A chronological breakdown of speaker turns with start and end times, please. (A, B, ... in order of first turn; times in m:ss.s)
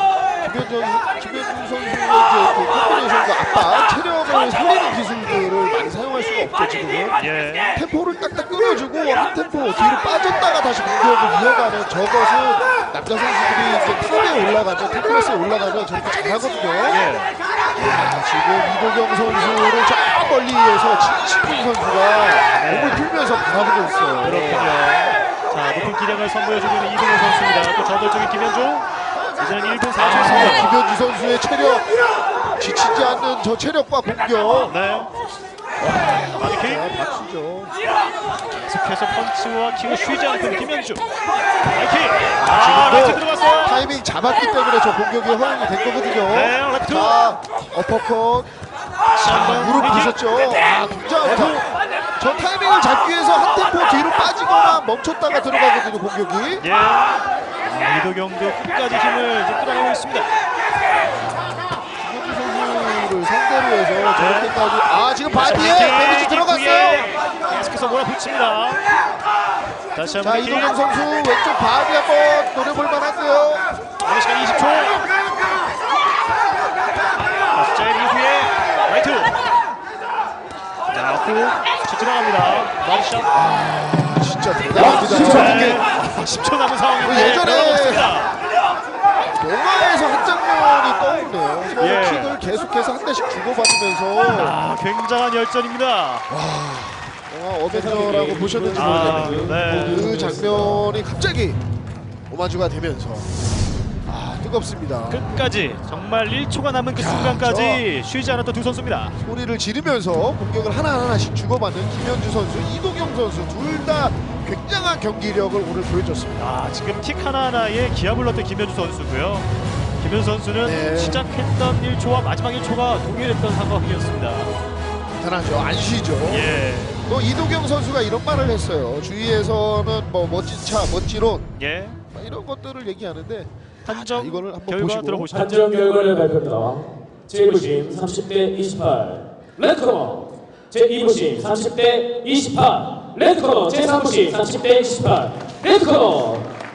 0:00.4-0:07.2 A
0:07.2-0:07.7 B
0:07.7-0:17.0 A
0:16.9-0:17.4 B
0:17.7-0:24.8 A
0:22.5-0:23.0 B
0:24.2-0:28.9 B
0:29.4-0:30.7 B
0:30.0-0:31.9 A
0:32.6-0:34.8 A
0:34.6-0:35.1 B
0:35.8-0:37.7 A
0:36.3-0:36.9 B
0:38.5-0:41.1 B
0:41.7-0:43.8 B
0:42.4-0:48.5 A
0:46.3-0:47.2 B
0:49.1-0:50.2 B
0:49.2-0:56.6 A
0:51.2-0:51.7 B
0:56.6-0:57.1 B
0:57.6-1:00.3 B
1:02.0-1:07.1 A
1:04.1-1:04.6 B
1:05.3-1:08.8 B
1:09.9-1:10.7 B
1:10.2-1:13.7 A
1:14.0-1:15.0 B
1:17.5-1:19.4 B
1:20.9-1:23.3 B
1:23.3-1:25.8 A
1:24.8-1:25.7 C
1:25.1-1:28.4 B
1:27.0-1:28.1 A
1:29.2-1:34.6 A
1:31.8-1:32.4 B
1:34.3-1:36.3 B
1:36.3-1:41.6 A
1:37.7-1:40.9 C
1:38.7-1:40.3 B
1:42.3-1:43.3 A
1:44.0-1:45.2 A
1:45.1-1:49.2 B
1:46.9-1:47.8 A
1:49.2-1:56.5 A
1:56.4-2:04.5 B
2:00.6-2:01.2 A
2:05.2-2:11.5 A
2:06.2-2:07.0 B
2:11.6-2:12.0 B
2:12.1-2:15.3 A
2:13.8-2:15.6 B
2:15.3-2:26.5 C